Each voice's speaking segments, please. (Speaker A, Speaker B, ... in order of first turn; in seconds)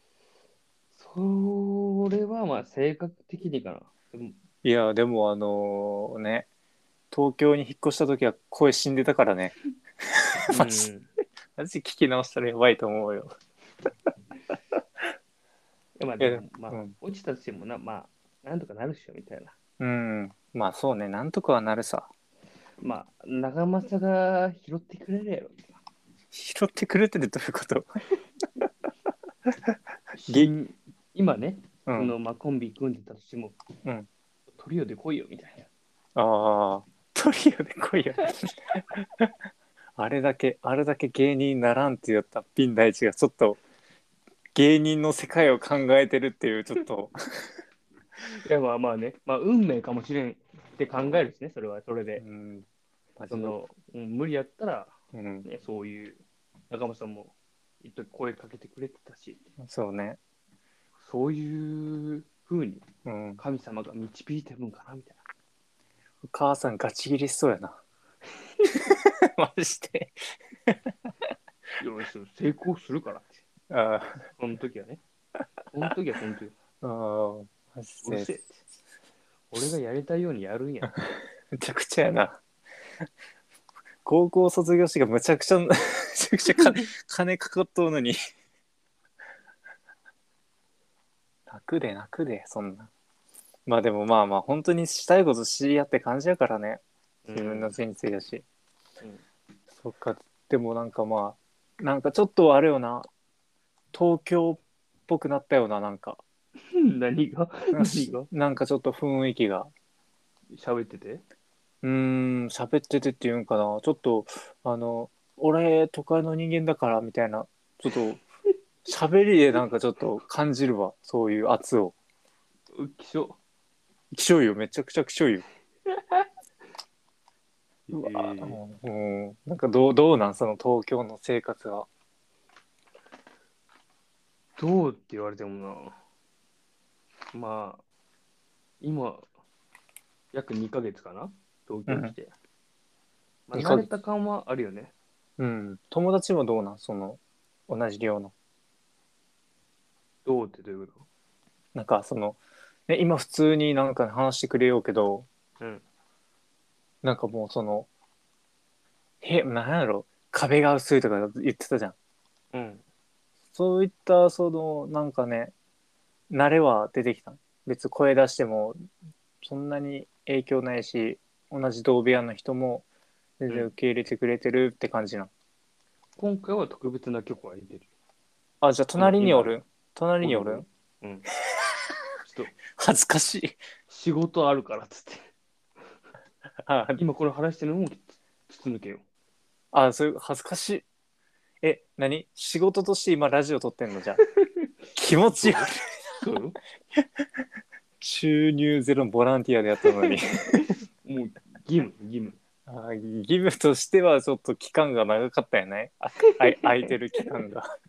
Speaker A: 0.9-4.4, 10.5-11.1, 16.0-19.6, 22.8-25.8, 30.1-33.6, 34.5-35.7, 48.3-52.2, 53.3-59.5, 61.0-62.9, 63.4-65.2, 68.5-68.7, 71.8-73.4, 74.4-75.0, 75.7-76.5, 78.0-78.6, 79.5-81.0, 86.5-86.8, 97.2-97.7, 106.6-108.3, 110.5-111.2, 122.7-123.4, 125.9-126.3, 127.9-128.6, 134.6-136.0, 137.3-137.8, 138.8-139.3, 140.3-142.3, 143.5-144.9, 150.2-151.1, 162.5-162.8, 176.2-177.9, 179.0-179.6, 180.2-181.3, 182.2-182.5, 183.9-185.3, 187.0-189.0, 194.4-194.7, 195.4-196.6, 200.1-202.4, 206.3-206.9
Speaker B: 4.6-6.5, 7.1-9.5, 10.1-10.9, 11.6-13.3, 16.2-16.9, 19.8-22.1, 26.3-28.0, 29.5-29.8, 31.9-32.1, 36.2-39.3, 40.0-43.6, 44.5-47.6, 52.2-52.7, 53.2-53.5, 55.1-55.5, 59.6-60.2, 63.0-63.4, 66.2-67.8, 68.7-70.9, 73.7-74.2, 76.8-78.3, 81.5-82.4, 84.0-88.2, 91.5-92.9, 93.7-96.8, 97.3-98.4, 99.8-103.1, 103.9-106.2, 107.7-109.7, 111.8-118.2, 118.9-121.9, 124.1-125.5, 127.9-131.9, 141.9-142.1, 143.5-143.9, 145.4-148.3, 151.8-155.3, 157.0-157.9, 159.2-161.9, 163.5-165.5, 166.3-168.8, 169.4-172.8, 173.4-175.3, 178.6-180.7, 182.8-183.6, 186.7-187.0, 189.7-190.9, 191.6-194.2, 195.0-196.1, 196.9-197.3, 198.0-200.7, 202.7-207.7